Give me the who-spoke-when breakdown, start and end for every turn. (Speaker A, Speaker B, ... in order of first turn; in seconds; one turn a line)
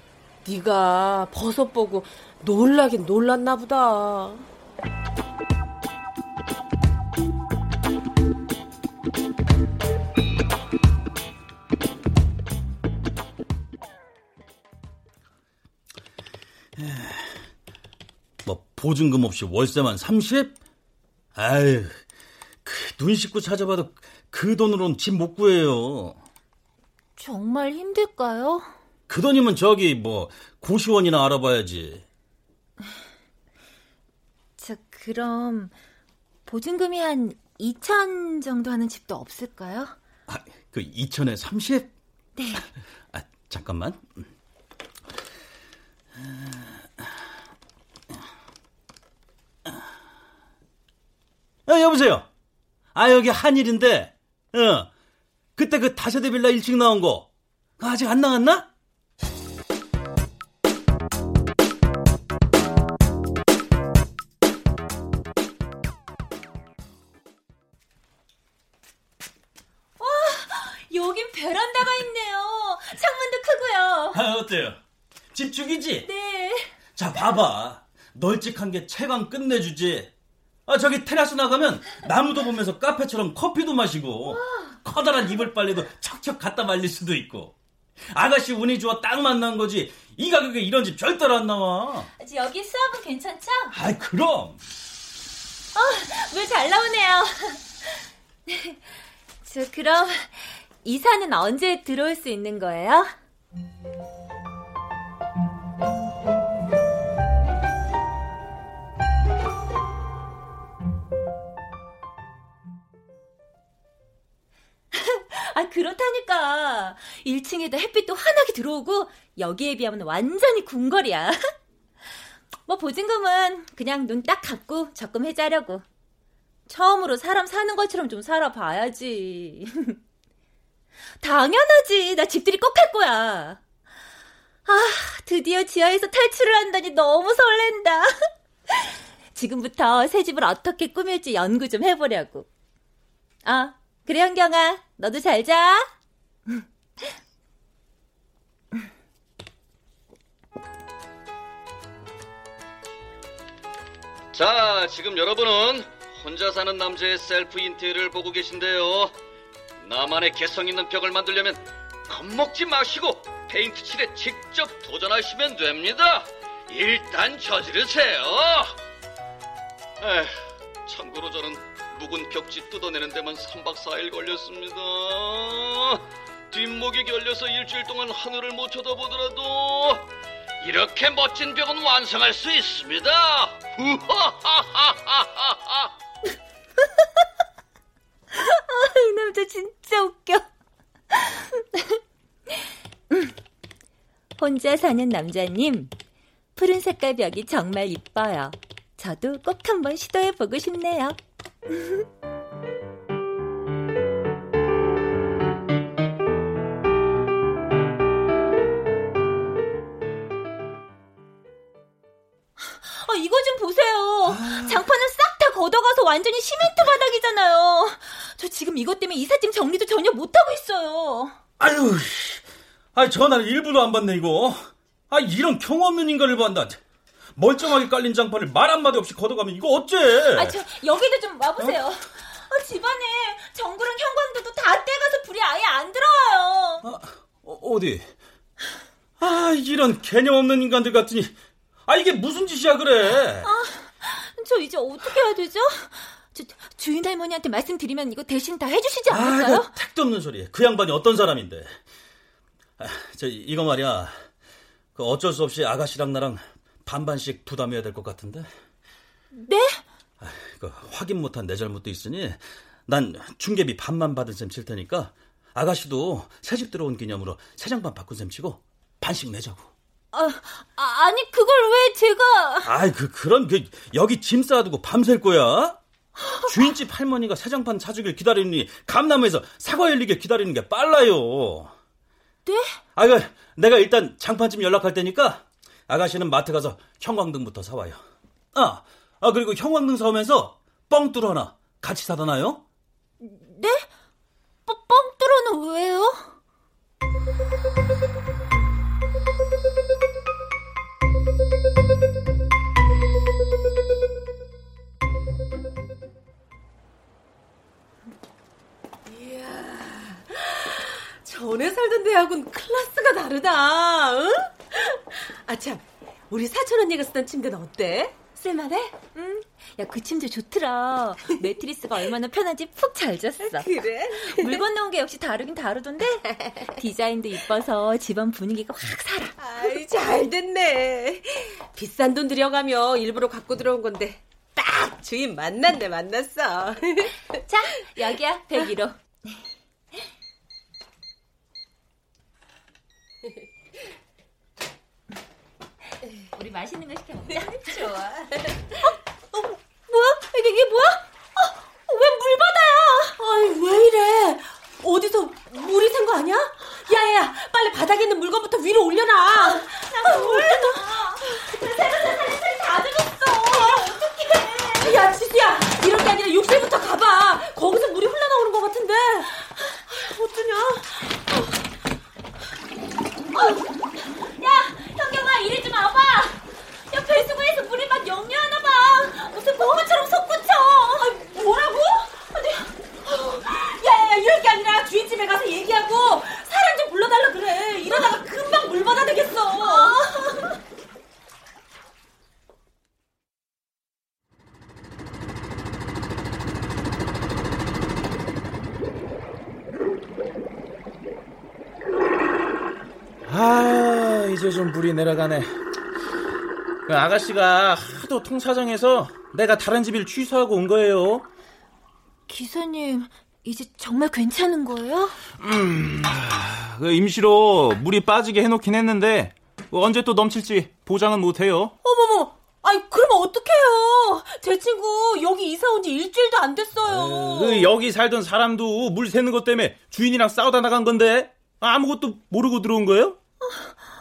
Speaker A: 0.4-4.5
Speaker B: 16.8-17.4
Speaker B: 18.4-20.6
Speaker B: 21.3-21.9
Speaker B: 22.6-26.2
Speaker C: 27.2-28.7
Speaker B: 29.1-32.0
Speaker C: 34.6-35.7
Speaker C: 36.5-39.9
Speaker B: 40.3-41.9
Speaker C: 42.4-42.6
Speaker B: 43.1-44.1
Speaker B: 46.2-47.1
Speaker B: 51.6-52.3
Speaker B: 52.9-54.9
Speaker B: 55.6-58.7
Speaker C: 70.0-74.2
Speaker B: 74.1-74.8
Speaker B: 75.3-76.1
Speaker C: 76.0-76.7
Speaker B: 77.0-80.1
Speaker B: 80.7-87.5
Speaker C: 84.3-84.8
Speaker B: 88.1-92.1
Speaker C: 92.2-93.7
Speaker B: 93.7-94.6
Speaker C: 95.7-98.8
Speaker C: 99.4-103.1
Speaker C: 114.9-121.4
Speaker C: 122.7-125.8
Speaker C: 126.7-130.0
Speaker C: 131.2-133.6
Speaker C: 134.7-138.1
Speaker C: 138.7-142.5
Speaker C: 143.4-145.9
Speaker D: 154.3-159.1
Speaker D: 159.8-168.8
Speaker D: 170.0-180.0
Speaker D: 180.6-185.9
Speaker C: 188.3-190.4
Speaker C: 191.1-192.0
Speaker C: 192.5-193.3
Speaker C: 194.4-195.9
Speaker C: 196.6-201.2
Speaker C: 201.7-202.0
Speaker C: 212.6-221.4
Speaker B: 214.2-214.8
Speaker B: 221.6-222.4
Speaker B: 222.9-226.8
Speaker B: 227.3-230.6
Speaker C: 230.3-236.8
Speaker B: 236.8-238.1
Speaker B: 239.2-241.3
Speaker B: 241.8-243.5
Speaker C: 243.4-249.7
Speaker B: 249.1-251.8
Speaker B: 252.8-254.2
Speaker B: 254.9-258.5
Speaker C: 259.4-259.8
Speaker B: 260.2-269.7
Speaker C: 270.1-272.7
Speaker B: 272.6-275.8
Speaker C: 276.2-276.6
Speaker B: 276.5-281.7
Speaker C: 282.4-282.8
Speaker B: 282.9-288.0
Speaker B: 288.5-292.6
Speaker C: 293.2-293.9
Speaker C: 294.7-296.4
Speaker A: 309.1-318.4
Speaker C: 318.4-329.4
Speaker A: 323.4-324.6
Speaker A: 326.3-326.7
Speaker A: 329.4-337.4
Speaker C: 337.4-338.9
Speaker C: 346.3-348.0
Speaker A: 347.6-348.5
Speaker C: 349.3-353.1
Speaker A: 353.2-360.8
Speaker C: 359.4-364.9
Speaker A: 363.6-364.0
Speaker A: 364.8-369.3
Speaker C: 369.9-370.8
Speaker C: 373.3-382.7
Speaker A: 383.1-389.9
Speaker C: 389.6-390.6
Speaker E: 403.2-405.5
Speaker E: 406.9-411.2
Speaker C: 412.3-415.2
Speaker E: 415.4-421.7
Speaker A: 421.8-427.4
Speaker E: 426.8-433.2
Speaker C: 433.4-433.8